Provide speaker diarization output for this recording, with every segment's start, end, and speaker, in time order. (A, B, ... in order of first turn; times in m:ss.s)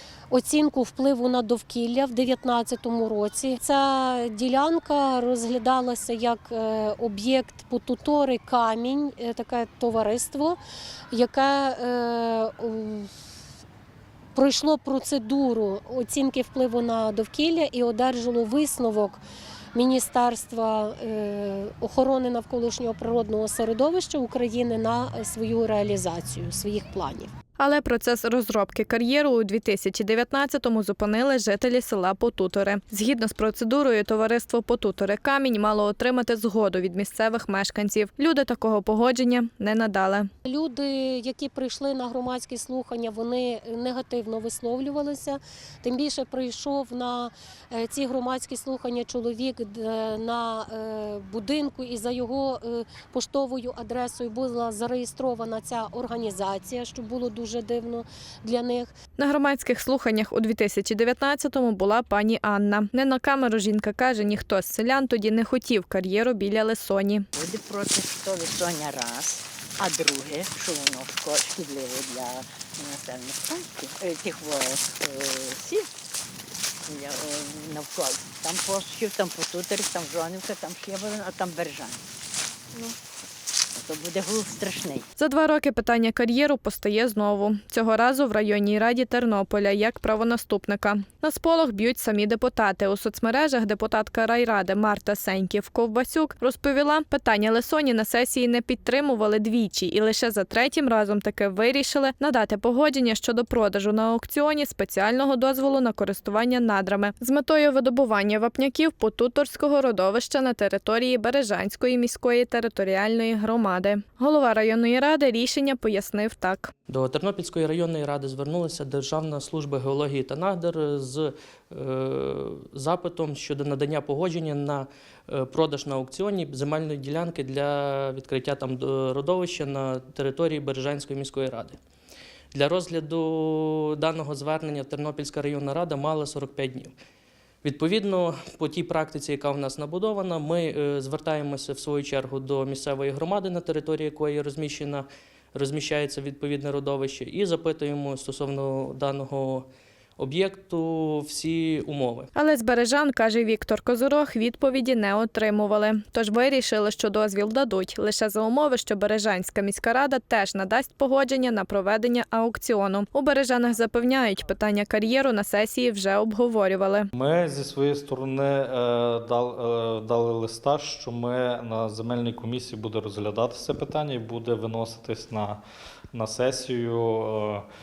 0:00.3-0:10.6 A
0:11.1-0:13.1 A
0:14.3-0:19.2 A
0:19.7-0:27.3 A
0:27.6-0:40.3 B
0:40.4-0:58.9 A
0:59.2-1:07.3 B
1:07.3-1:15.9 C
1:16.9-1:22.0 C
1:23.7-1:25.1 C
1:25.2-1:56.7 B
1:56.9-2:11.8 D
2:12.5-2:16.9 D
2:17.6-2:29.6 D
2:30.2-2:32.3 D
2:32.3-2:47.1 B
2:47.1-2:55.6 E
2:56.1-2:57.6 E